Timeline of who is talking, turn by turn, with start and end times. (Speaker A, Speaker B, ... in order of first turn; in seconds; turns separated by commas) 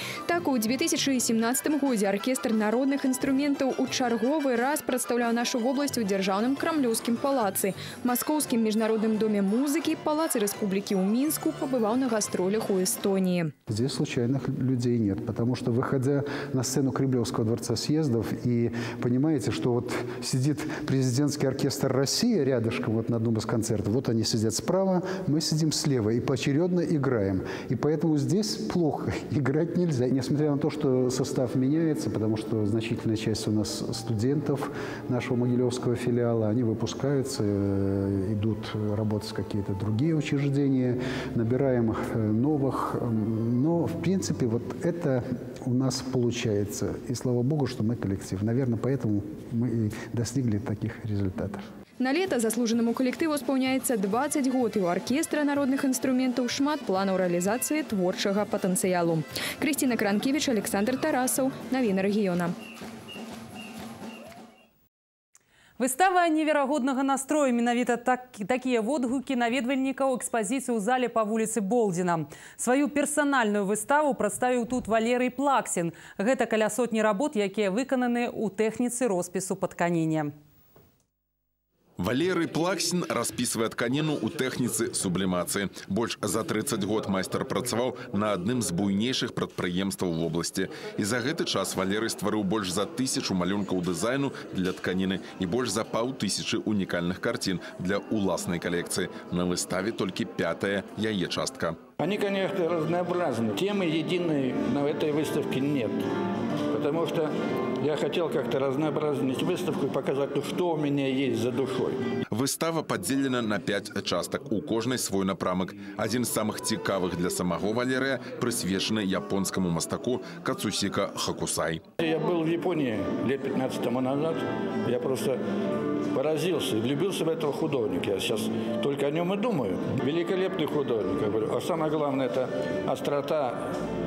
Speaker A: 0.3-13.5, Speaker B: 13.7-51.7, Speaker A: 52.0-62.5, Speaker C: 65.8-80.3, Speaker D: 82.0-101.8, Speaker E: 102.0-106.0, Speaker E: 106.7-112.0, Speaker D: 112.3-121.8, Speaker E: 122.0-125.4, Speaker E: 126.1-133.6